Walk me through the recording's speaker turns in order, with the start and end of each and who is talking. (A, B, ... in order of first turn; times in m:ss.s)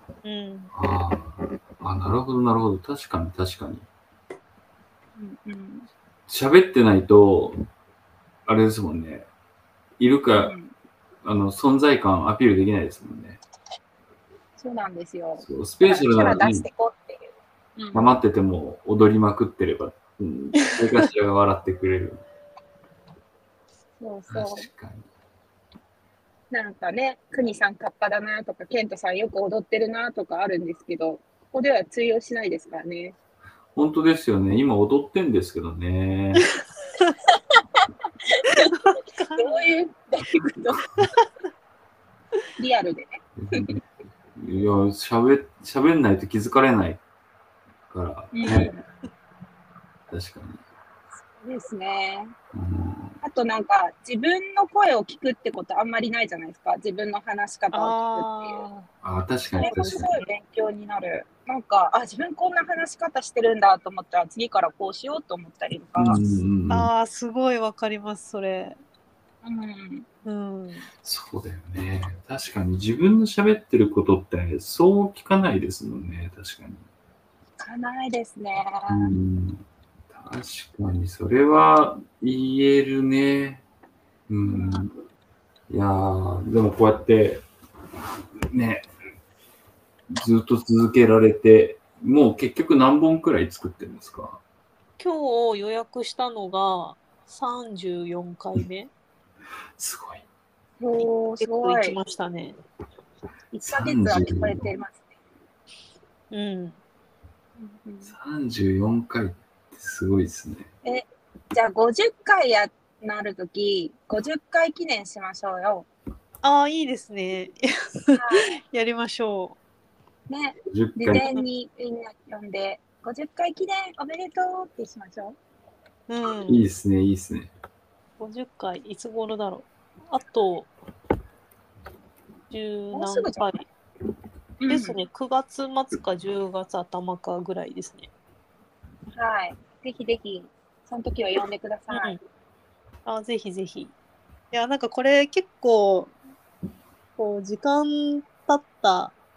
0:00.2-0:00.7 A
0:00.7-0:03.9 B
0:05.2-0:05.9 C
0:06.3-0:07.6 B
0:08.5-0:09.3 B
0:10.0-0:10.6 B
0:10.3-0:10.7 C
0:11.2-0:13.4 B
0:14.6-0:18.1 C
0:15.4-0:16.7 B
0:17.9-0:22.2 B
0:24.0-0:24.7 C
0:24.3-0:25.1 B
0:26.5-0:33.2 C
0:33.8-0:36.5 B
0:38.4-0:40.9 C
0:38.8-0:39.7 A
0:42.6-0:43.7 C
0:43.4-0:43.8 B
0:44.4-0:47.0 B
0:47.9-0:48.7 B
0:48.3-0:48.8 C
0:50.1-0:50.6 B
0:51.4-0:52.3 C
0:52.5-0:53.2 B
0:53.2-0:58.6 C
0:57.7-0:58.9 A
0:59.0-1:00.1 B
0:59.6-1:06.4 C
0:59.6-1:00.0 A
1:06.0-1:06.9 B
1:06.7-1:08.8 A
1:09.4-1:10.1 C
1:10.2-1:10.9 A
1:11.0-1:16.9 B
1:17.6-1:19.1 C
1:18.9-1:23.6 B
1:24.3-1:24.9 B
1:24.4-1:24.9 C
1:25.7-1:27.4 B
1:28.5-1:28.9 B
1:30.1-1:34.4 B
1:35.0-1:38.9 A
1:39.8-1:40.2 B
1:40.8-1:42.0 C
1:41.4-1:42.6 A
1:43.5-1:45.0 C
1:43.7-1:44.7 B
1:46.3-1:46.8 A
1:47.6-1:48.1 C
1:48.0-1:50.7 B
1:50.8-1:55.9 C
1:56.4-1:59.6 A
1:58.2-1:58.5 C
2:00.3-2:05.4 C
2:00.7-2:01.3 B
2:01.2-2:01.4 A
2:06.1-2:06.6 A
2:06.5-2:07.5 B
2:08.2-2:10.7 A
2:12.5-2:13.6 A
2:12.9-2:13.6 C
2:14.6-2:15.0 C
2:14.7-2:18.1 A
2:19.1-2:22.2 C
2:21.9-2:22.2 A
2:23.0-2:23.9 A
2:24.5-2:26.2 A
2:27.2-2:29.2 A